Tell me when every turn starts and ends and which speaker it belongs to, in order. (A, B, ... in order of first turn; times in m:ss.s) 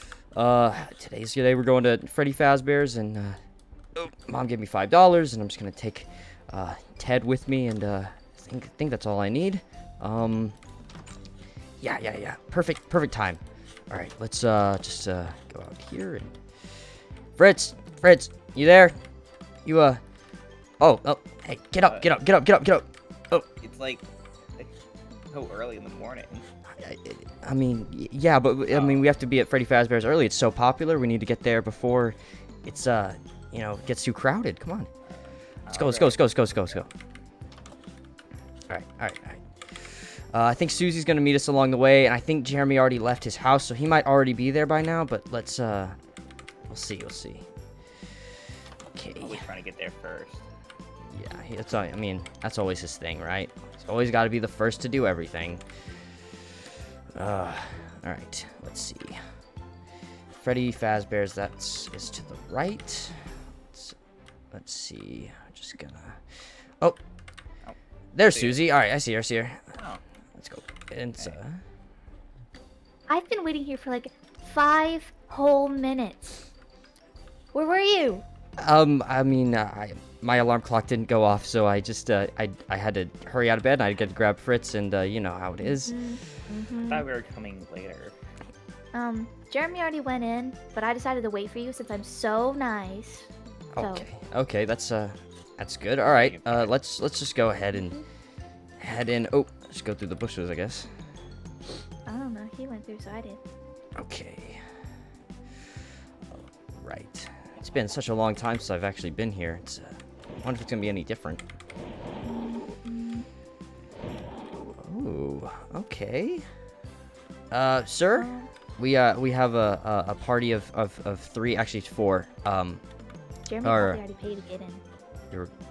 0:00.3-0:03.4 A
0:04.0-0:10.6 A
0:11.8-0:16.8 A
0:17.4-0:19.0 A
0:19.6-0:20.0 A
0:20.8-0:23.5 A
0:21.8-0:22.2 B
0:23.6-0:24.1 B
0:25.3-0:26.5 B
0:26.8-0:34.9 A
0:28.7-0:29.1 B
0:35.1-0:36.8 B
0:35.7-0:36.9 A
0:38.7-0:46.0 A
0:46.7-0:47.5 A
0:48.9-0:49.4 A
0:49.2-0:50.5 B
0:51.1-0:55.6 A
0:57.2-0:59.2 A
1:00.4-1:04.0 A
1:04.5-1:07.0 A
1:08.2-1:09.7 A
1:08.3-1:08.6 B
1:09.8-1:10.0 B
1:10.4-1:11.6 A
1:13.1-1:16.4 C
1:17.5-1:18.2 C
1:18.6-1:26.0 A
1:25.6-1:27.1 C
1:26.9-1:28.2 B
1:28.9-1:34.1 C
1:33.7-1:38.0 A
1:36.0-1:36.7 B
1:37.7-1:38.0 C
1:38.8-1:40.9 A
1:42.1-1:43.4 C
1:44.0-1:44.6 A
1:46.3-1:51.4 A
1:52.2-1:53.3 C
1:54.6-1:56.5 A
1:57.5-2:02.8 A
1:58.2-1:58.5 C
2:03.4-2:04.8 C
2:03.6-2:04.0 A